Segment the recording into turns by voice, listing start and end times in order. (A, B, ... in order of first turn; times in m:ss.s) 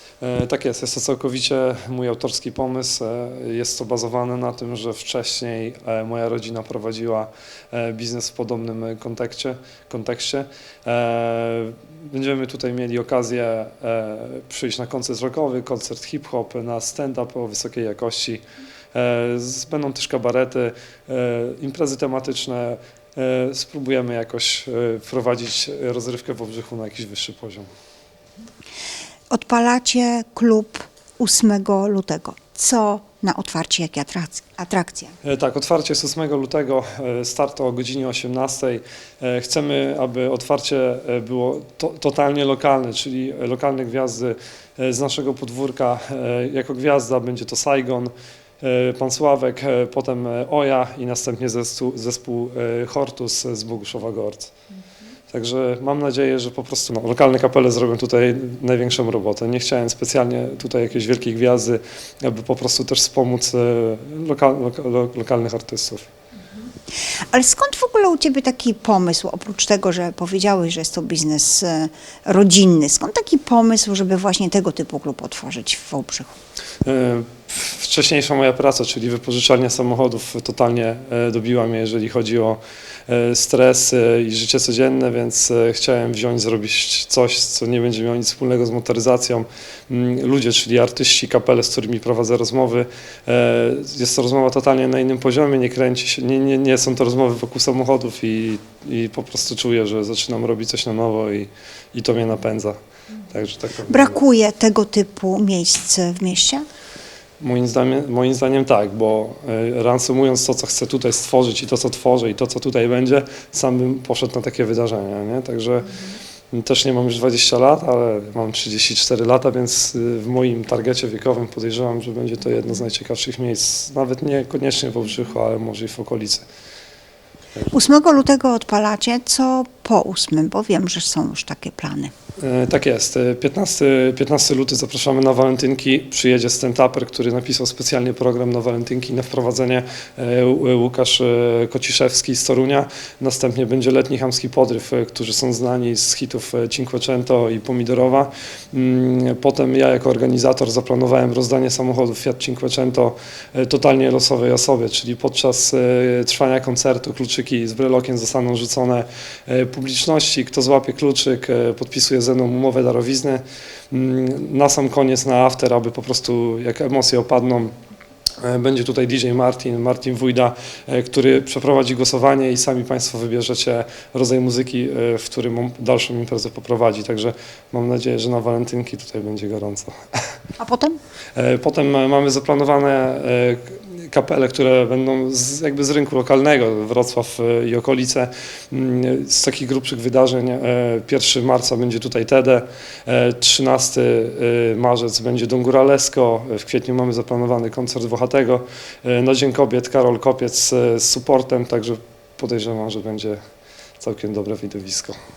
0:00.2-0:18.4 A
0:18.9-0:27.7 A
0:29.3-0:35.2 B
0:35.2-0:54.5 A
0:55.3-1:06.0 A
1:07.1-1:16.3 B
1:16.8-1:42.8 A
1:43.3-1:44.2 A
1:43.9-1:46.6 B
1:47.4-2:06.4 A
2:07.7-2:12.1 B
2:12.4-2:47.7 A
2:48.4-3:00.2 A
3:00.6-3:01.0 B
3:01.3-3:23.4 A
3:24.0-3:25.2 A